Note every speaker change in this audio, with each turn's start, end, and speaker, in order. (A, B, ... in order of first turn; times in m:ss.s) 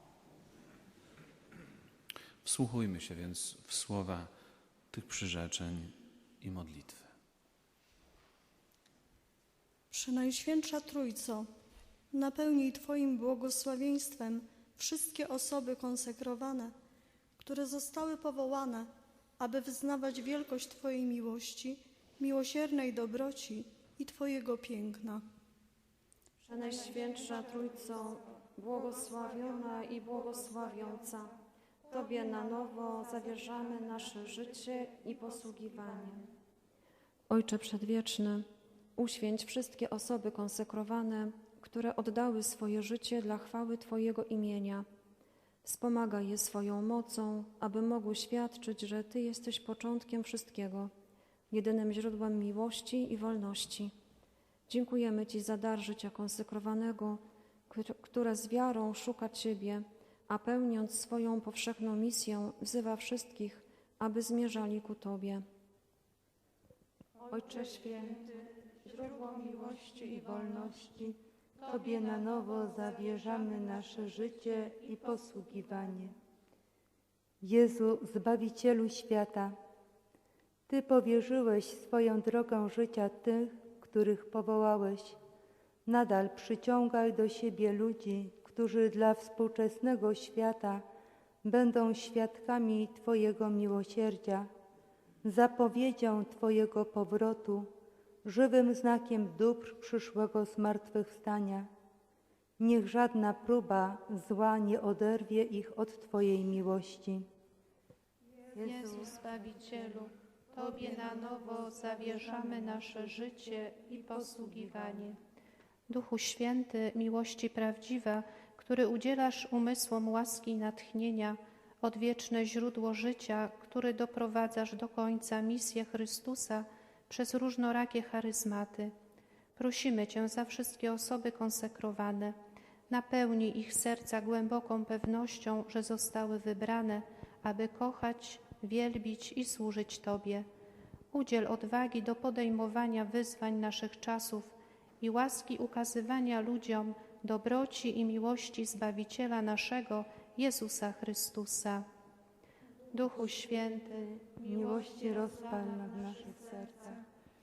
0:02.4-0:04.3 A
0:04.9-0:07.1 A
0:09.9-0:11.5 B
0:12.1-0:16.7 B
0:17.4-0:25.3 B
0:26.4-0:31.4 C
0:31.9-0:36.3 C
0:37.3-0:44.9 C
0:45.6-0:50.9 C
0:51.5-0:53.9 C
0:54.7-1:05.4 C
1:07.3-1:16.2 D
1:17.4-1:19.6 D
1:20.7-1:25.2 D
1:25.9-1:30.8 D
1:31.4-1:34.5 D
1:35.2-1:37.7 D
1:38.2-1:41.7 D
1:42.6-1:47.3 D
1:48.6-1:55.2 E
1:48.6-1:48.9 D
1:55.9-2:08.9 E
2:09.6-2:12.4 E
2:12.9-2:20.5 E
2:21.1-2:31.9 E
2:32.9-2:34.4 E
2:34.4-2:36.9 D